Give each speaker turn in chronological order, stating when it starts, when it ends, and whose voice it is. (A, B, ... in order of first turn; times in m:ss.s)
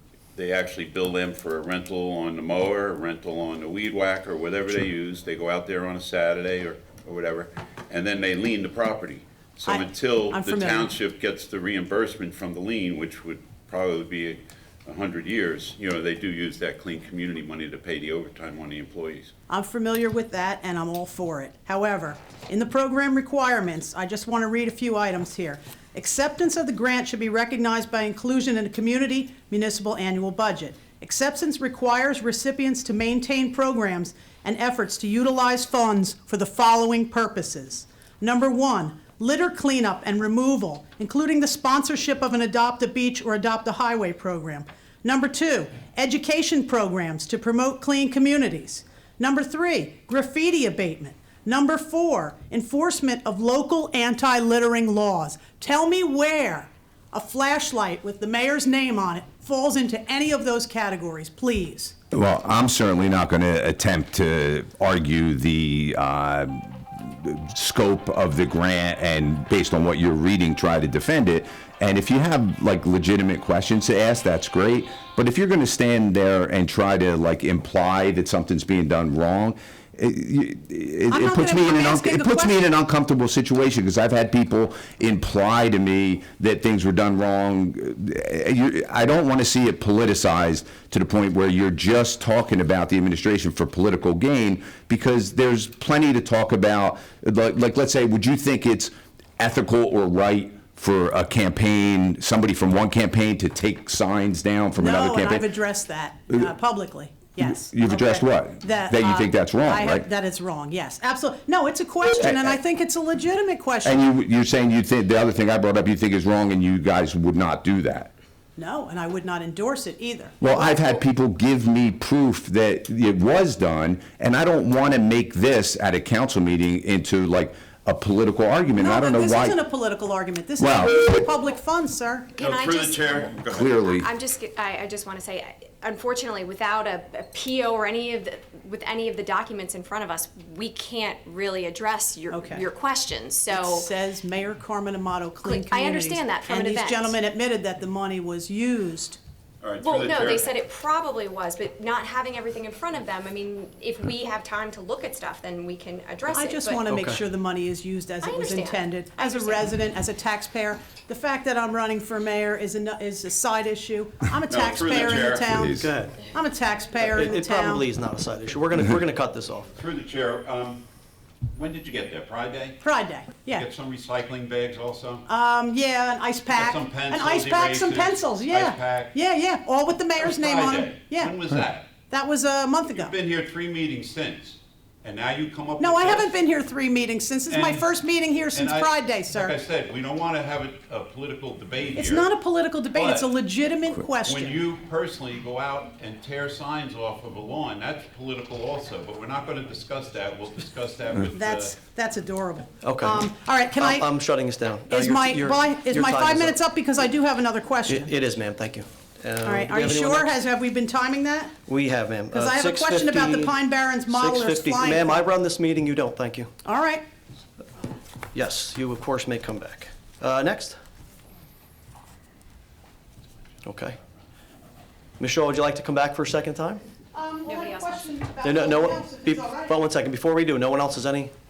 0:00.4-0:19.3 A
0:09.6-0:10.9 B
0:19.5-1:01.9 B
1:02.1-1:45.4 C
1:21.1-1:22.6 B
1:44.8-1:54.0 B
1:47.4-1:50.1 C
1:52.2-1:52.6 C
1:53.8-1:58.1 C
1:58.6-2:01.0 B
2:00.4-2:09.6 C
2:08.8-2:12.4 B
2:10.6-2:11.1 C
2:12.4-2:13.8 A
2:12.4-2:23.7 D
2:13.5-2:14.1 C
2:22.3-2:22.7 B
2:23.5-2:29.2 B
2:25.4-2:26.9 D
2:29.6-2:30.7 A
2:29.8-2:36.8 D
2:36.3-2:47.8 B
2:36.9-2:37.2 E
2:38.2-2:39.6 D
2:44.5-2:45.5 A
2:45.4-2:45.9 C
2:45.8-2:46.3 E
2:47.0-2:49.7 E
2:49.7-2:50.8 A
2:51.5-2:52.8 A
2:52.8-2:53.7 B
2:53.4-2:55.2 A
2:55.3-3:01.4 B
2:56.5-2:59.2 A
3:00.2-3:01.9 A
3:02.1-3:03.1 B
3:02.9-3:06.3 A
3:05.8-3:09.5 B
3:07.5-3:07.9 A
3:08.5-3:12.3 A
3:12.0-3:14.6 B
3:12.9-3:13.3 A
3:14.2-3:21.8 A
3:21.3-3:24.1 B
3:22.8-3:26.6 E
3:24.9-3:28.1 B
3:27.9-3:30.4 E
3:29.4-3:31.6 B
3:31.7-3:36.5 E
3:32.3-3:35.3 B
3:36.6-3:37.0 B
3:38.3-3:40.8 E
3:43.6-3:44.0 E
3:45.2-3:46.8 E
3:47.1-3:49.7 B
3:47.5-3:47.8 D
3:48.4-3:51.3 E